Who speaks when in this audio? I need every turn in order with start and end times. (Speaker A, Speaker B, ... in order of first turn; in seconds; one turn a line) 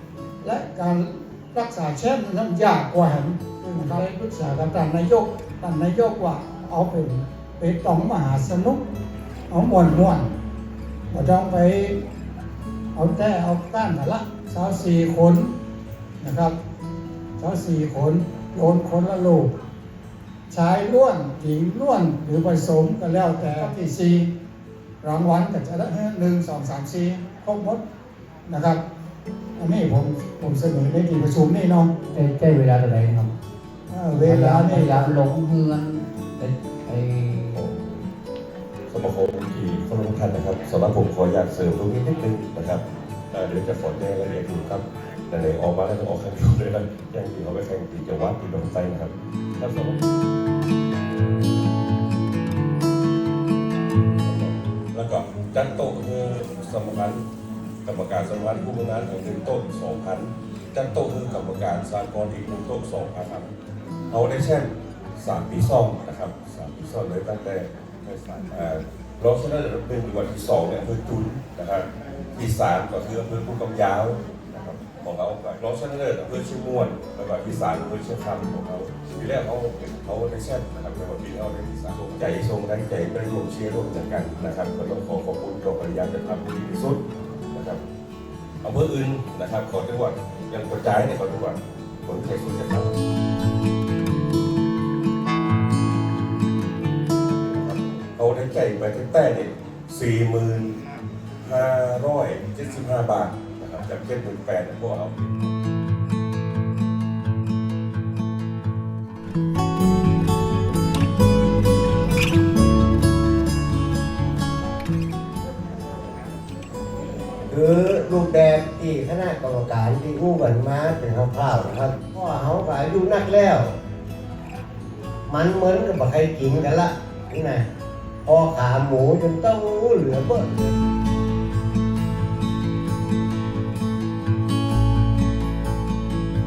Speaker A: 0.4-8.9
Speaker A: 9.5-10.3
Speaker A: 11.1-12.0
Speaker A: 12.9-15.6
Speaker A: 16.2-16.6
Speaker A: 17.4-19.5
Speaker A: 20.5-24.3
Speaker A: 25.0-27.8
Speaker A: 28.5-28.8
Speaker A: 29.6-31.9
Speaker B: 32.1-33.4
Speaker A: 33.9-35.1
Speaker B: 34.2-37.6
Speaker C: 37.6-38.0
Speaker C: 38.9-50.0
Speaker C: 54.2-57.2
Speaker C: 57.9-63.5
Speaker C: 64.1-87.8
Speaker C: 88.6-92.9
Speaker C: 97.5-100.8
Speaker C: 101.4-105.2
Speaker D: 117.5-123.8
Speaker D: 125.3-127.7
Speaker D: 128.2-130.6